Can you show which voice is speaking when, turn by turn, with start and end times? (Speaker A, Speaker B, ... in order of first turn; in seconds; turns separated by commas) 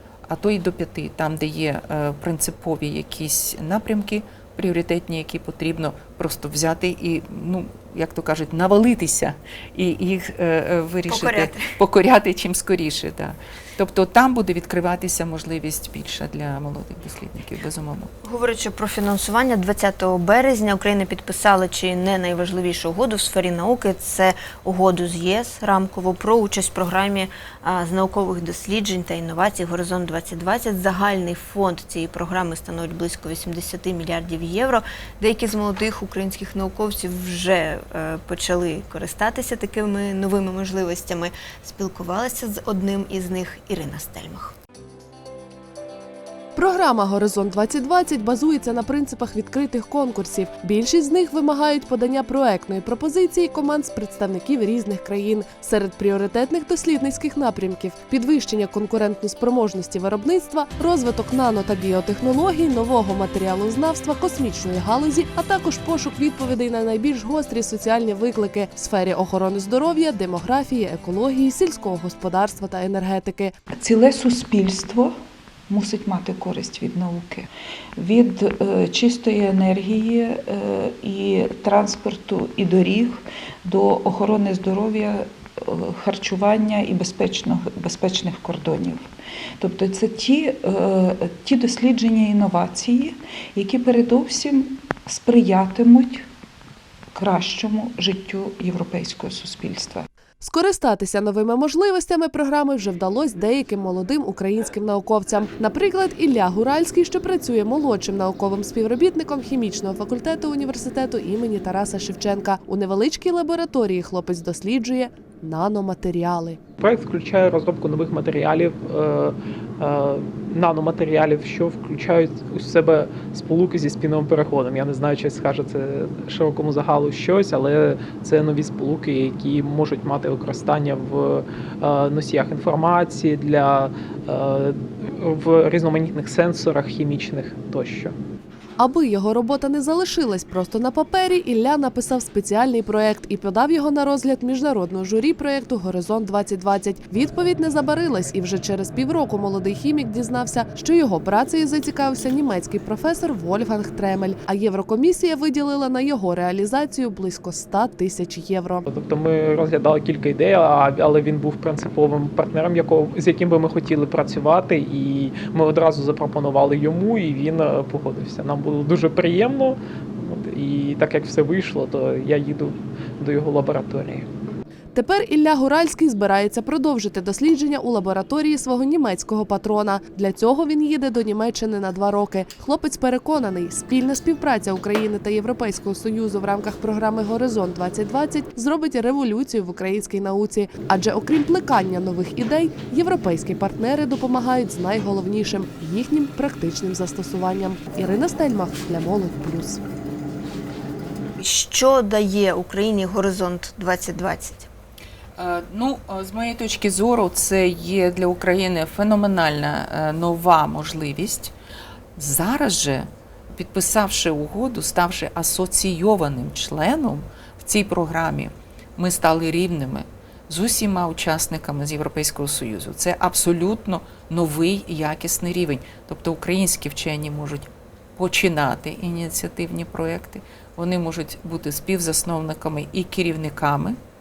Speaker A: 0.3-18.1, Speaker B: 11.1-11.6, Speaker B: 18.2-44.5, Speaker C: 46.6-73.5, Speaker D: 73.7-75.2, Speaker D: 75.7-96.3, Speaker D: 97.2-100.1, Speaker C: 100.4-116.6, Speaker E: 116.8-138.2, Speaker C: 138.8-158.8, Speaker E: 158.9-174.3, Speaker C: 174.9-199.8, Speaker B: 201.4-204.7, Speaker A: 205.4-211.5, Speaker A: 212.2-234.0